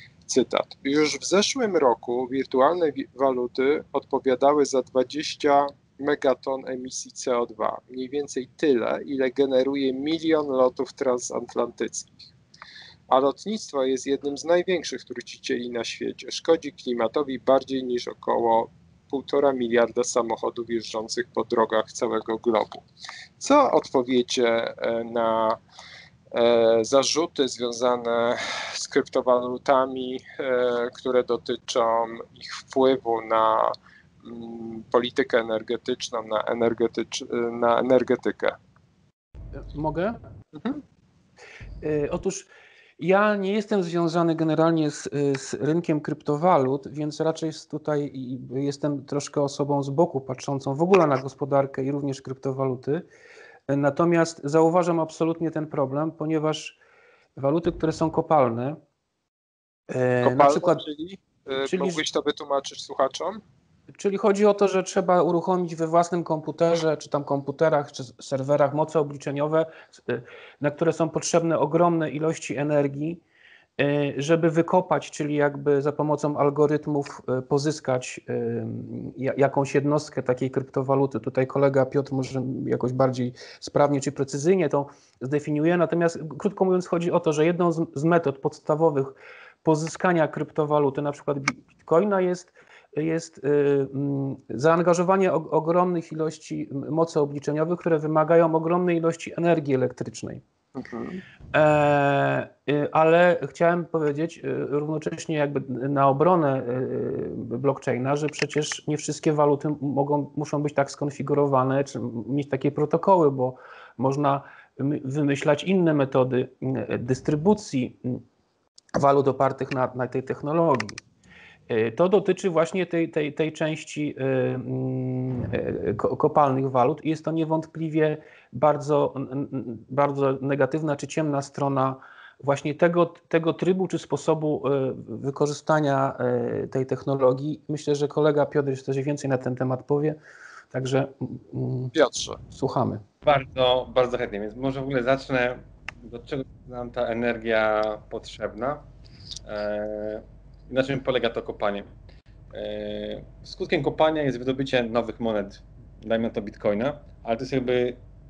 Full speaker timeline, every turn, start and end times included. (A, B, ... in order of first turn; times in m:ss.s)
0:00.3-0:12.3 A
0:13.1-0:22.8 A
0:23.4-0:25.6 A
0:26.3-0:38.6 A
0:39.7-0:40.2 B
0:41.8-0:53.0 B
0:53.7-0:56.8 B
0:57.4-0:58.8 B
0:59.9-1:00.8 B
1:00.2-1:03.4 A
1:01.6-1:02.0 B
1:03.9-1:13.2 B
1:13.8-1:40.4 B
1:40.8-1:41.2 A
1:41.5-1:58.2 B
1:59.0-2:01.0 B
2:01.7-2:20.2 B
2:20.7-2:21.9 B
2:21.9-2:22.4 A
2:22.5-2:23.0 B
2:23.2-2:28.8 C
2:29.4-2:31.8 C
2:32.5-2:38.0 C